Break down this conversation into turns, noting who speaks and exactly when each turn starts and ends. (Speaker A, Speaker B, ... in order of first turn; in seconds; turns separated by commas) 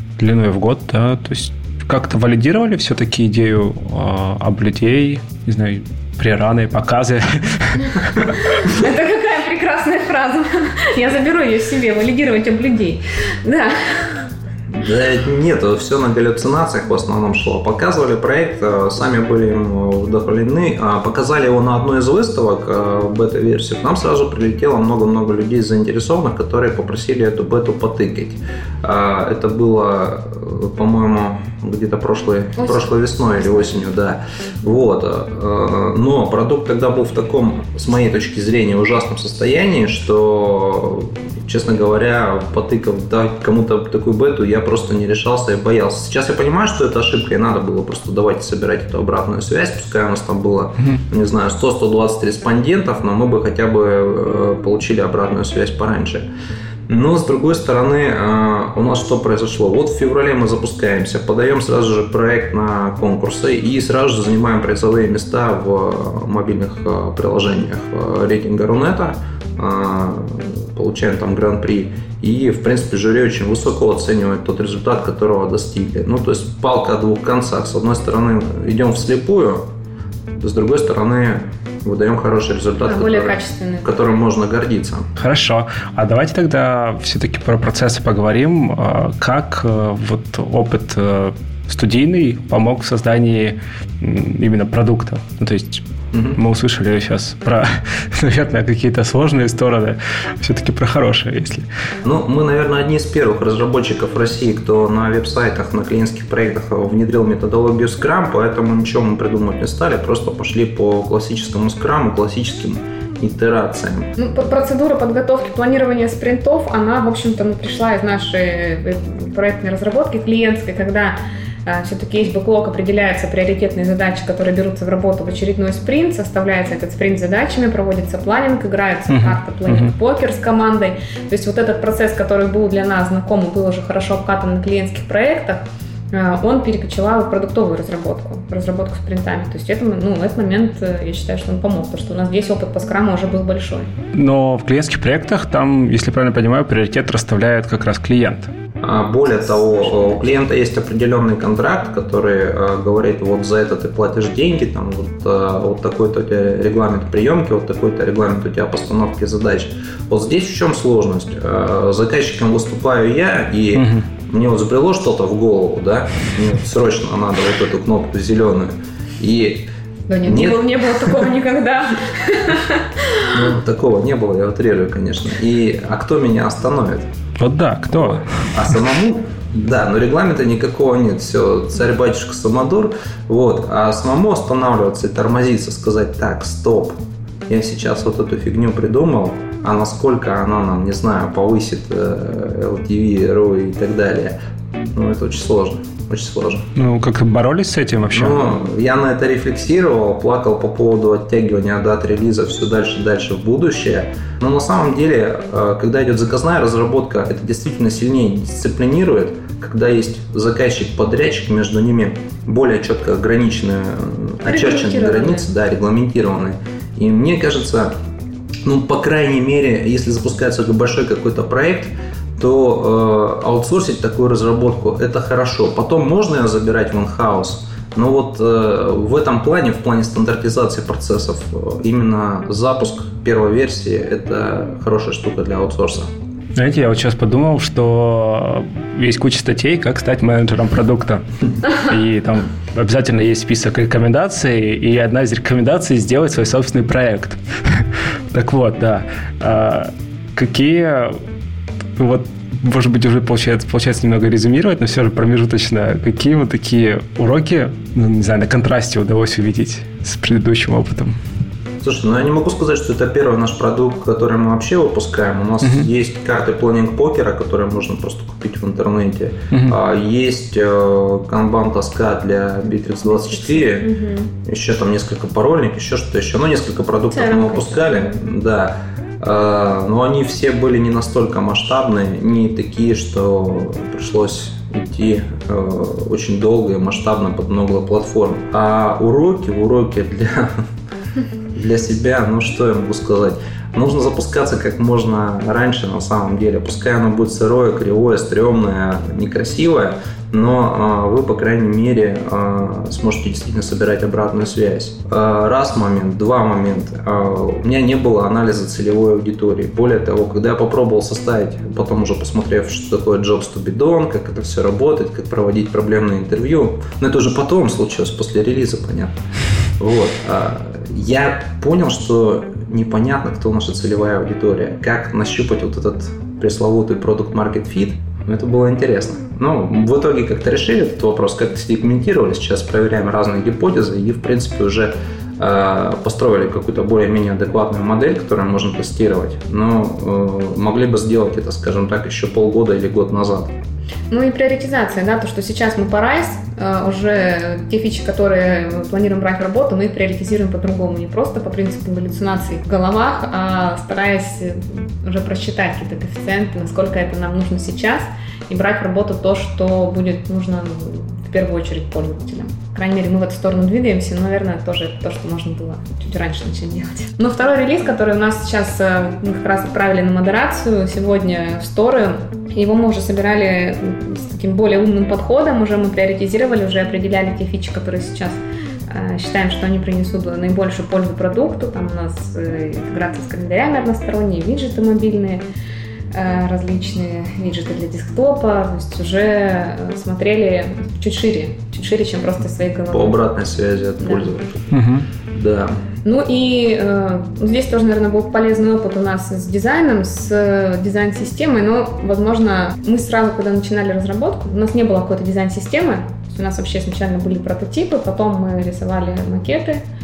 Speaker A: 0.2-8.4, Speaker B: 8.2-14.2, Speaker C: 14.7-56.3, Speaker B: 32.6-33.7, Speaker C: 56.9-79.7, Speaker C: 80.4-85.1, Speaker B: 82.8-83.9, Speaker A: 85.2-95.8, Speaker C: 96.1-96.4, Speaker A: 96.4-101.7, Speaker C: 102.0-114.1, Speaker B: 114.2-143.9, Speaker A: 129.1-129.9, Speaker A: 144.1-148.5, Speaker C: 148.8-169.7, Speaker B: 149.5-150.3, Speaker A: 163.8-164.1, Speaker B: 170.1-173.3, Speaker C: 170.3-170.7, Speaker C: 173.3-177.1, Speaker A: 177.4-178.8, Speaker C: 177.9-187.0, Speaker C: 187.5-196.7, Speaker A: 196.8-198.6, Speaker C: 198.1-217.9, Speaker B: 214.4-215.5, Speaker C: 218.7-236.1, Speaker A: 236.6-251.2, Speaker A: 252.0-261.2, Speaker C: 261.8-290.6, Speaker A: 265.6-265.9, Speaker A: 269.5-269.8, Speaker B: 273.3-274.3, Speaker B: 277.1-278.1, Speaker C: 291.5-319.2, Speaker C: 319.8-343.5, Speaker B: 344.1-385.4, Speaker B: 386.1-393.2, Speaker C: 392.9-394.7, Speaker B: 394.0-394.3, Speaker A: 394.7-395.1, Speaker C: 395.3-395.8, Speaker B: 396.0-409.8